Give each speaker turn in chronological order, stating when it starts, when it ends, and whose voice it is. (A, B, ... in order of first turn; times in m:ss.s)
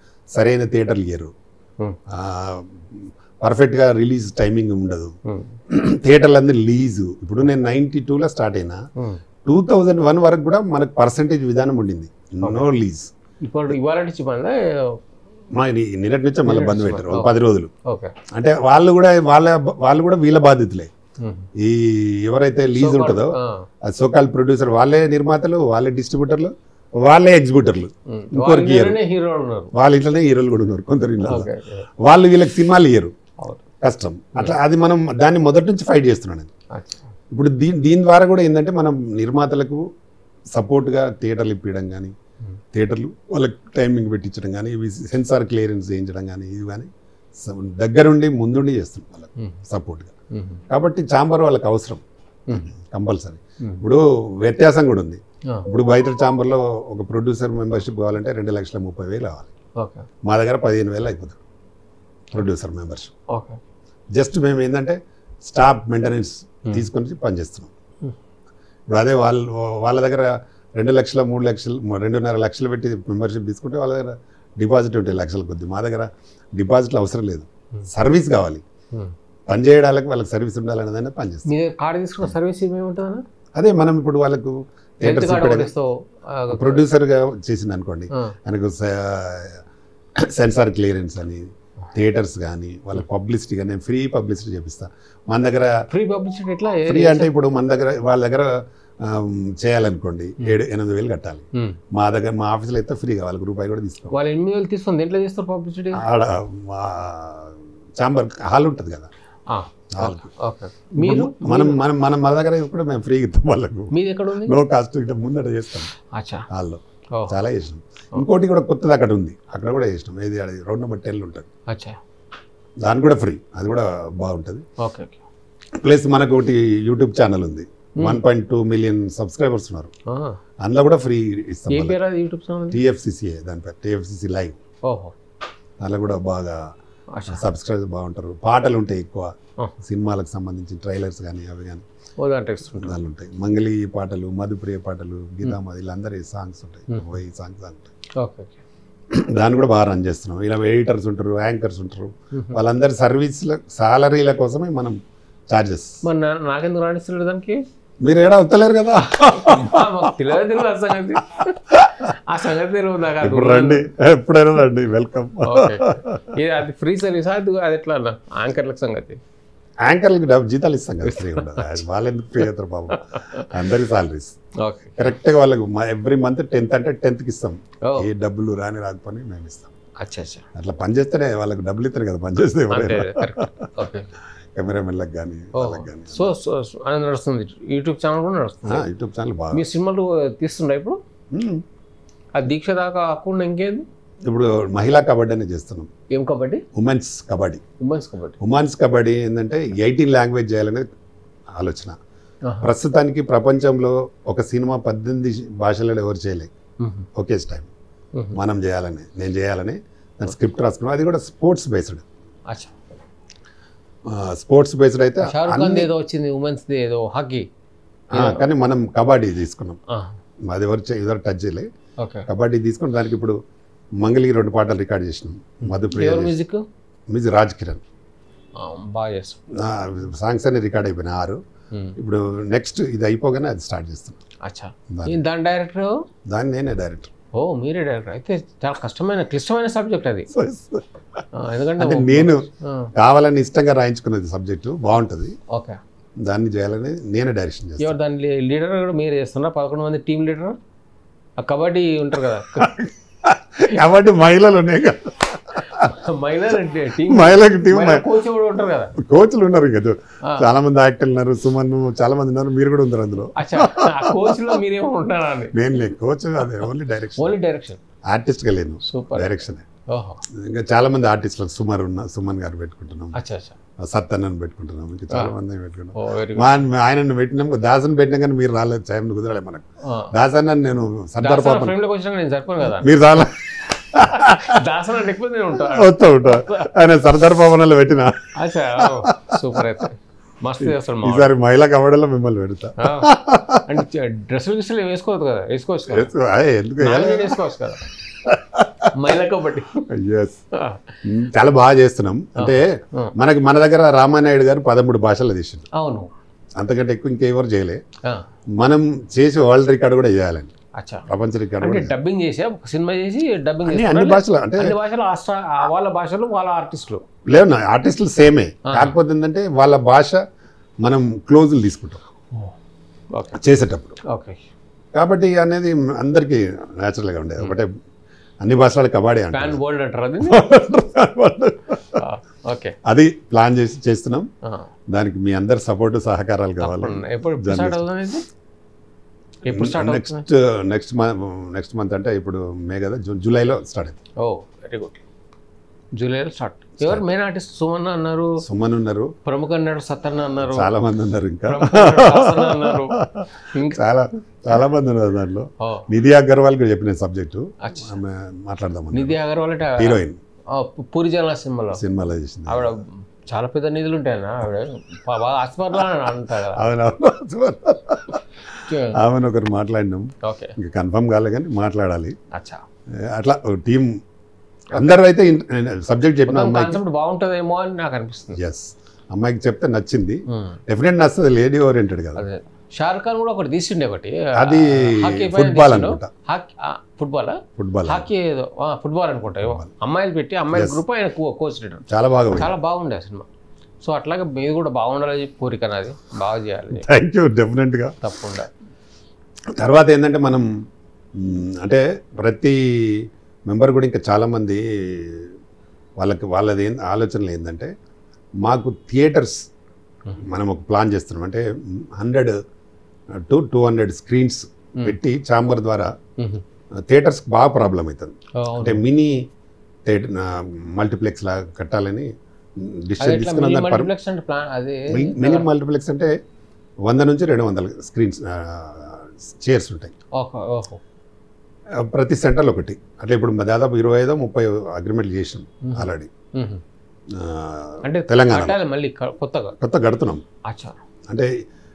0:00.3-0:01.3 A
0:02.1-0:05.2 A
0:05.3-0:05.6 B
0:05.7-0:08.8 A
0:09.4-0:13.1 A
0:13.4-0:15.0 B
0:15.5-0:17.7 A
0:16.4-0:18.1 B
0:18.3-0:20.9 A
0:21.2-0:21.5 B
0:21.6-0:29.0 A
0:22.7-0:23.6 B
0:28.1-0:29.7 B
0:29.7-0:31.5 A
0:31.2-0:31.9 B
0:32.0-0:33.1 A
0:33.8-0:36.5 A
0:36.7-0:37.0 B
0:37.3-0:39.8 A
0:40.5-0:42.1 A
0:42.7-0:50.1 A
0:50.3-0:50.6 B
0:50.7-0:59.5 A
0:59.8-1:00.1 B
1:00.2-1:01.4 A
1:02.3-1:03.1 A
1:03.3-1:03.6 B
1:04.2-1:07.7 A
1:08.9-1:18.6 A
1:19.5-1:21.5 A
1:21.4-1:23.2 B
1:23.5-1:25.7 A
1:25.0-1:26.9 B
1:26.5-1:29.6 A
1:30.2-1:35.8 A
1:35.9-1:37.3 B
1:36.8-1:44.1 A
1:44.1-1:46.0 B
1:45.9-1:49.1 A
1:49.5-1:51.8 B
1:49.9-1:50.3 A
1:51.0-1:55.9 A
1:53.9-1:54.6 B
1:56.1-1:56.4 B
1:56.5-2:01.5 A
2:01.7-2:02.0 B
2:02.8-2:04.6 A
2:04.8-2:05.2 B
2:05.8-2:09.9 A
2:10.1-2:10.4 B
2:10.6-2:12.0 A
2:11.7-2:12.8 B
2:12.7-2:14.6 A
2:14.8-2:15.1 B
2:15.8-2:16.6 A
2:17.1-2:17.4 B
2:17.3-2:21.8 A
2:22.2-2:23.0 B
2:22.7-2:27.9 A
2:28.2-2:28.6 B
2:29.1-2:35.0 A
2:35.5-2:36.0 A
2:36.0-2:37.6 B
2:38.0-2:40.2 A
2:39.3-2:43.8 B
2:41.7-2:42.1 A
2:43.2-2:46.4 A
2:45.4-2:49.2 B
2:49.8-2:54.3 A
2:51.0-2:51.8 B
2:52.9-2:53.5 B
2:54.6-2:55.1 B
2:55.0-2:59.7 A
3:00.0-3:00.4 B
3:00.6-3:03.6 A
3:02.7-3:04.1 B
3:04.5-3:06.3 A
3:05.5-3:08.8 B
3:08.6-3:09.6 A
3:09.5-3:11.0 B
3:11.3-3:11.6 A
3:12.4-3:13.8 B
3:14.2-3:15.9 A
3:16.1-3:16.6 B
3:16.7-3:17.6 A
3:17.8-3:18.4 B
3:18.4-3:20.8 A
3:21.6-3:22.0 A
3:22.6-3:26.5 A
3:26.8-3:27.0 B
3:27.2-3:27.7 A
3:28.3-3:32.0 A
3:34.1-3:35.9 A
3:35.2-3:37.4 B
3:38.1-3:39.8 A
3:38.1-3:38.4 B
3:40.5-3:41.7 A
3:42.0-3:42.3 B
3:42.3-3:43.4 A
3:44.0-3:46.4 A
3:45.6-3:46.6 B
3:47.1-3:47.8 A
3:48.6-3:49.4 B
3:49.5-3:51.4 A
3:52.0-3:54.2 A
3:54.4-3:56.0 B
3:54.9-3:55.2 A
3:56.3-3:57.1 A
3:57.3-4:00.3 B
4:00.3-4:00.9 A
4:01.3-4:02.9 B
4:01.8-4:05.4 A
4:05.5-4:05.8 B
4:06.2-4:08.0 A
4:07.8-4:10.6 B
4:11.4-4:12.8 B
4:12.6-4:16.0 A
4:15.7-4:18.9 B
4:17.0-4:18.1 A
4:19.0-4:24.6 A
4:23.4-4:25.5 B
4:25.5-4:27.4 A
4:27.2-4:27.8 B
4:28.1-4:29.6 A
4:28.8-4:30.2 B
4:30.3-4:33.2 A
4:33.1-4:33.5 B
4:33.8-4:41.8 A
4:35.9-4:36.6 B
4:39.8-4:40.1 B
4:41.2-4:43.0 B
4:42.7-4:44.6 A
4:44.1-4:46.7 B
4:45.5-4:49.7 A
4:48.3-4:51.3 B
4:50.6-4:53.8 A
4:52.8-4:53.1 B
4:53.6-4:56.1 B
4:55.9-4:57.4 A
4:56.8-4:57.8 B
4:58.2-4:58.9 A
4:58.9-4:59.8 B
4:59.9-5:00.4 A
5:00.5-5:00.9 B
5:01.0-5:05.7 A
5:02.4-5:03.1 B
5:05.7-5:06.1 B
5:06.6-5:07.8 A
5:08.6-5:10.5 A
5:10.8-5:11.0 B
5:11.1-5:11.9 A
5:11.6-5:17.0 B
5:13.6-5:14.8 A
5:17.3-5:20.2 A
5:18.6-5:19.0 B
5:20.8-5:22.0 A
5:23.1-5:23.4 B
5:23.4-5:24.0 A
5:24.1-5:24.4 B
5:24.9-5:27.7 A
5:28.4-5:29.6 A
5:29.3-5:30.4 B
5:30.2-5:32.0 A
5:32.0-5:32.7 B
5:32.8-5:34.3 A
5:34.9-5:37.9 A
5:36.6-5:38.2 B
5:39.4-5:40.2 B
5:39.5-5:44.0 A
5:44.2-5:45.0 B
5:46.0-5:48.4 B
5:48.4-5:49.1 A
5:49.2-5:50.7 B
5:50.4-5:59.2 A
5:51.5-5:53.8 B
5:57.6-5:57.9 B
5:58.9-6:00.0 B
5:59.7-6:00.2 A
6:00.5-6:01.8 B
6:01.7-6:02.7 A
6:02.5-6:06.6 B
6:05.8-6:12.2 A
6:08.7-6:09.0 B
6:10.2-6:10.5 B
6:12.3-6:12.6 B
6:13.0-6:14.0 A
6:14.7-6:16.8 A
6:16.3-6:18.4 B
6:18.3-6:22.2 A
6:20.3-6:20.6 B
6:22.2-6:33.3 B
6:24.4-6:26.1 A
6:27.6-6:28.1 A
6:29.4-6:29.7 A
6:30.5-6:30.8 A
6:31.9-6:32.5 A
6:33.8-6:36.9 B
6:36.7-6:38.0 A
6:38.0-6:38.5 B
6:39.6-6:40.5 A
6:41.2-6:45.3 A
6:46.0-6:47.7 A
6:48.4-6:49.5 A
6:50.2-6:52.4 A
6:53.2-6:55.9 A
6:56.2-6:56.4 B
6:56.9-6:59.2 A
6:58.4-6:58.8 B
6:59.8-7:03.9 A
7:03.0-7:05.5 B
7:04.9-7:06.1 A
7:06.8-7:09.9 A
7:10.1-7:10.8 B
7:11.8-7:16.1 A
7:15.6-7:16.6 B
7:17.1-7:18.6 A
7:17.8-7:19.5 B
7:19.6-7:20.2 A
7:20.4-7:20.8 B